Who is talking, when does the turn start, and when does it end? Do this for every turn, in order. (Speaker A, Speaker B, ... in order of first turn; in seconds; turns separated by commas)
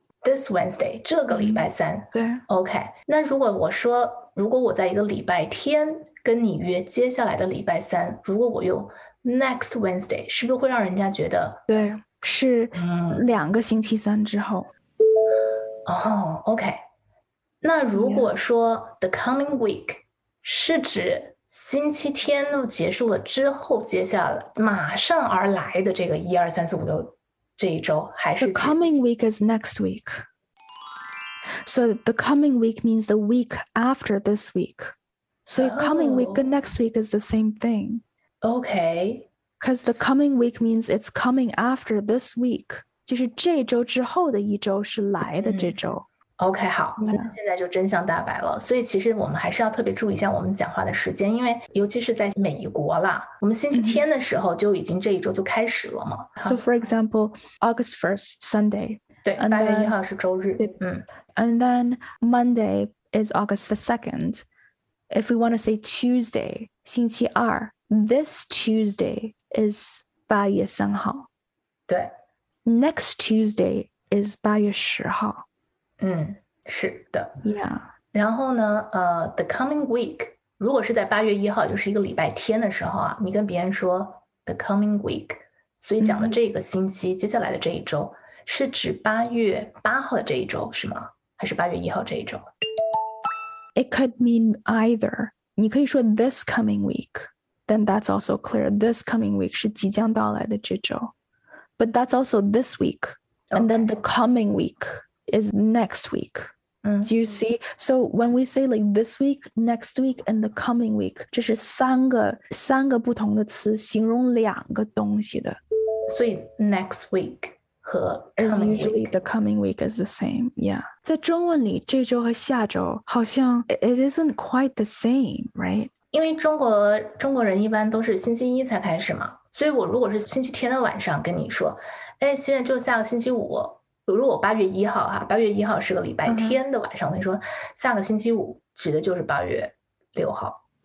Speaker A: 0.2-11.6, Speaker B: 1.3-2.4, Speaker B: 11.7-14.7, Speaker A: 12.7-13.2, Speaker A: 15.8-16.8, Speaker A: 17.6-28.7, Speaker B: 17.9-18.3, Speaker B: 28.4-30.1, Speaker B: 31.6-34.9, Speaker B: 35.5-38.0, Speaker A: 35.5-36.5, Speaker A: 38.4-39.3, Speaker B: 39.6-46.1, Speaker A: 45.4-45.8, Speaker A: 46.4-56.6, Speaker B: 47.0-47.3, Speaker B: 53.7-54.0, Speaker B: 56.4-60.0, Speaker A: 59.2-61.0, Speaker B: 61.4-64.5, Speaker B: 65.1-71.3, Speaker B: 72.6-75.4, Speaker A: 76.0-77.4, Speaker B: 77.4-77.9, Speaker A: 78.1-92.4, Speaker B: 86.0-86.4, Speaker B: 93.7-101.1, Speaker B: 101.8-106.5, Speaker A: 103.5-103.9, Speaker A: 106.8-107.1, Speaker B: 107.0-115.6, Speaker A: 116.1-119.2, Speaker B: 118.4-125.9, Speaker A: 126.1-140.6, Speaker B: 136.2-136.6